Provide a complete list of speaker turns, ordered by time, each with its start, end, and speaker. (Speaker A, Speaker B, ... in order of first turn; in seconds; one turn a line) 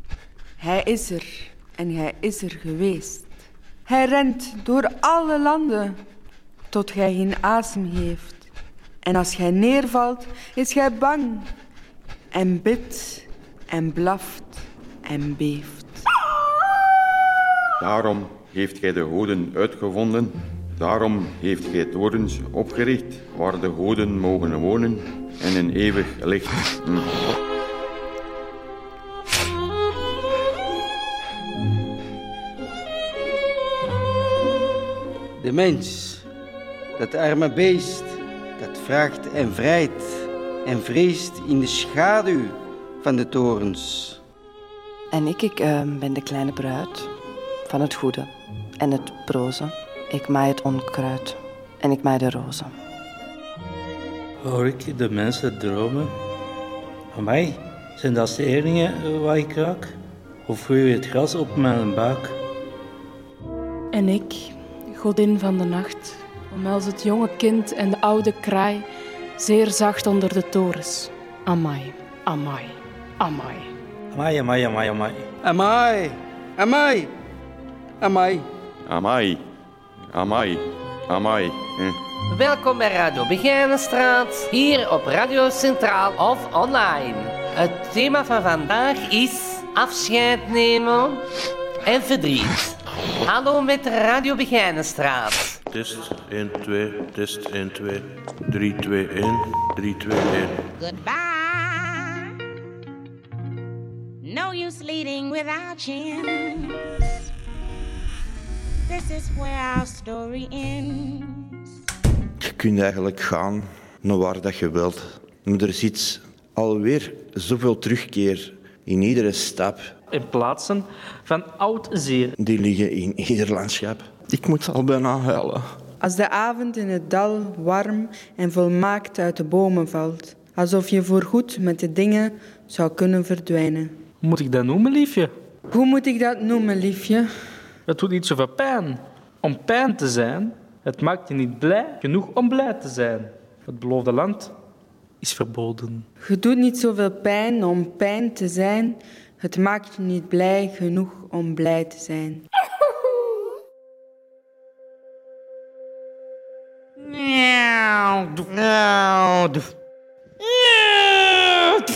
Speaker A: 0.6-6.0
Speaker A: 6.7-8.5
Speaker A: 9.0-11.5
Speaker A: 12.3-16.0
Speaker B: 17.8-27.2
Speaker C: 35.4-36.2
Speaker C: 37.0-44.2
Speaker D: 45.1-47.1
Speaker D: 47.6-52.7
Speaker E: 54.4-56.1
Speaker E: 57.1-59.9
Speaker E: 60.5-62.4
Speaker F: 63.9-68.9
Speaker F: 69.4-73.7
Speaker E: 74.1-75.2
Speaker C: 75.4-77.1
Speaker C: 78.0-78.5
Speaker B: 78.8-79.4
Speaker B: 80.1-82.0
Speaker G: 82.3-91.2
Speaker G: 91.8-95.6
Speaker H: 95.7-100.7
Speaker I: 100.8-102.1
Speaker I: 104.2-106.7
Speaker I: 108.9-111.5
Speaker J: 112.4-119.9
Speaker K: 120.1-122.3
Speaker J: 122.4-125.6
Speaker A: 126.0-133.9
Speaker K: 134.2-135.3
Speaker A: 135.7-137.3
Speaker K: 137.9-144.5
Speaker K: 145.2-146.1
Speaker A: 146.2-152.4
Speaker A: 160.9-161.7